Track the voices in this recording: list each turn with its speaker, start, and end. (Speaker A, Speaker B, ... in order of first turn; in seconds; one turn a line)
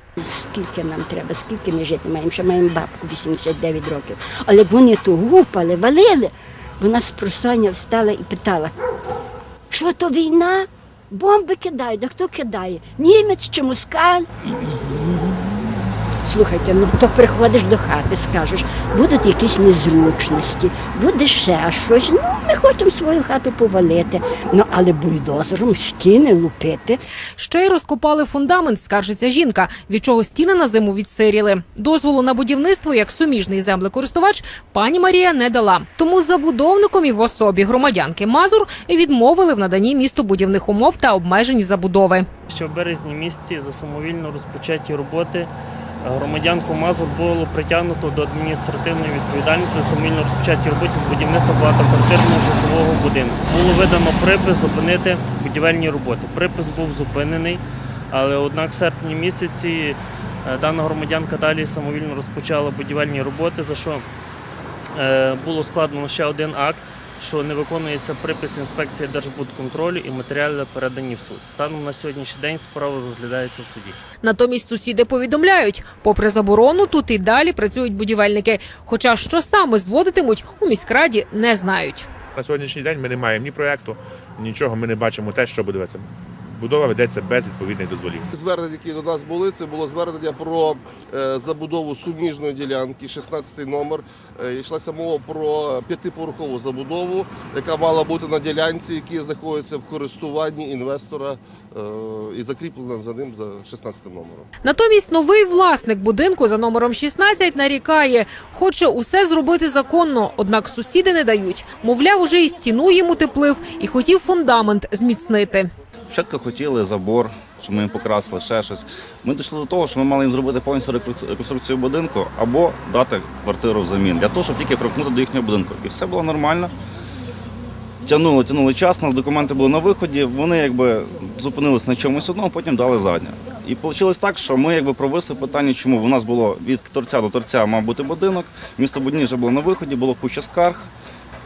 Speaker A: 0.2-8.7
Speaker A: 9.7-15.4
Speaker A: 16.2-27.0
Speaker B: 27.4-42.3
Speaker C: 42.5-45.5
Speaker C: 46.0-64.0
Speaker C: 64.9-74.0
Speaker B: 74.2-82.1
Speaker D: 82.3-88.3
Speaker E: 88.3-104.5
Speaker B: 104.6-115.7
Speaker F: 116.1-126.7
Speaker F: 128.0-140.8